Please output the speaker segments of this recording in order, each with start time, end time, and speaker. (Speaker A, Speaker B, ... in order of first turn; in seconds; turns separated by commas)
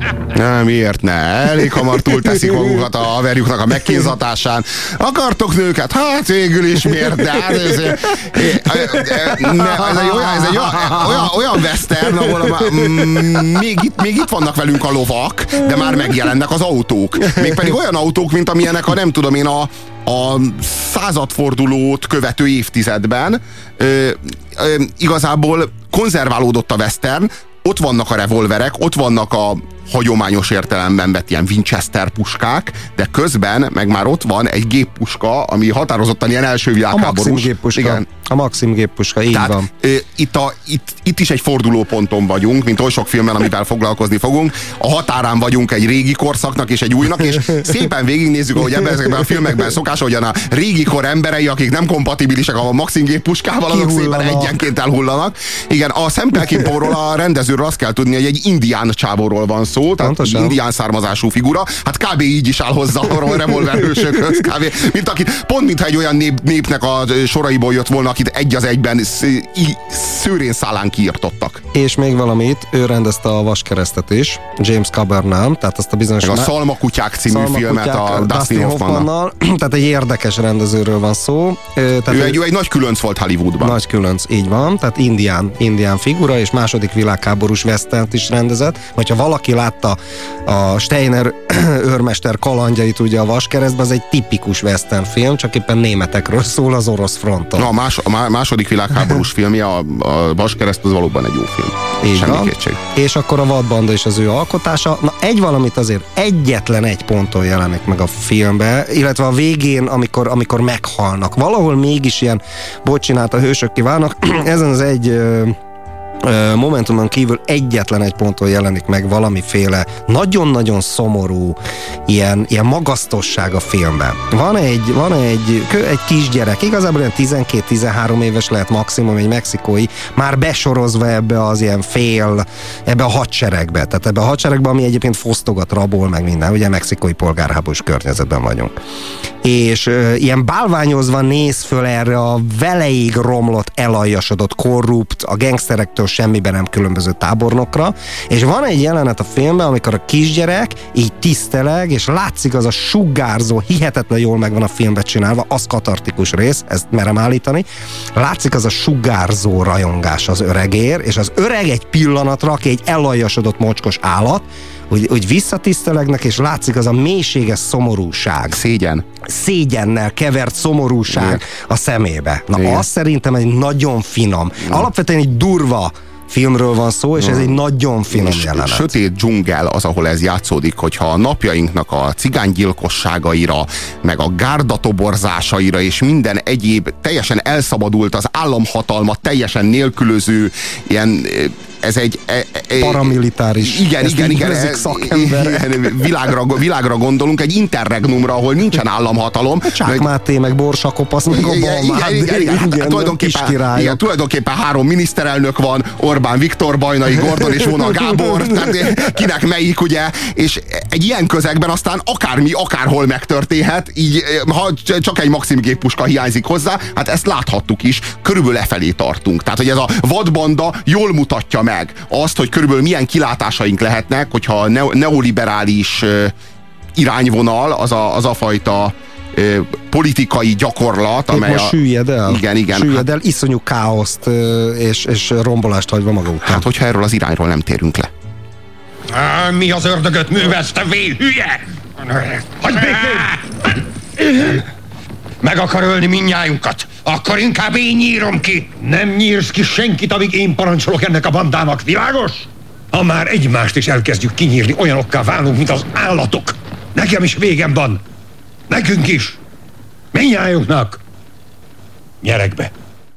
Speaker A: 0.3-38.0, Speaker B: 8.3-11.3, Speaker B: 12.1-13.4, Speaker B: 36.9-39.7, Speaker A: 39.3-71.6, Speaker B: 53.7-54.6, Speaker B: 60.0-60.6, Speaker B: 71.7-76.5, Speaker A: 76.2-79.1, Speaker B: 77.3-82.4, Speaker A: 82.1-83.8, Speaker B: 83.6-97.7, Speaker A: 97.6-102.8, Speaker B: 102.0-115.5, Speaker B: 116.2-138.8, Speaker B: 139.4-168.6, Speaker A: 168.5-169.0, Speaker B: 169.3-178.9, Speaker A: 171.1-171.4, Speaker A: 172.5-172.8, Speaker A: 177.2-177.6, Speaker A: 178.1-200.1, Speaker B: 192.7-196.1, Speaker B: 199.7-204.0, Speaker A: 201.3-226.3, Speaker A: 226.9-233.1, Speaker B: 231.3-236.6, Speaker A: 236.4-238.1, Speaker C: 239.1-243.4, Speaker C: 244.2-244.6, Speaker C: 245.4-258.0, Speaker C: 258.7-259.4, Speaker C: 260.1-261.0, Speaker C: 262.2-262.7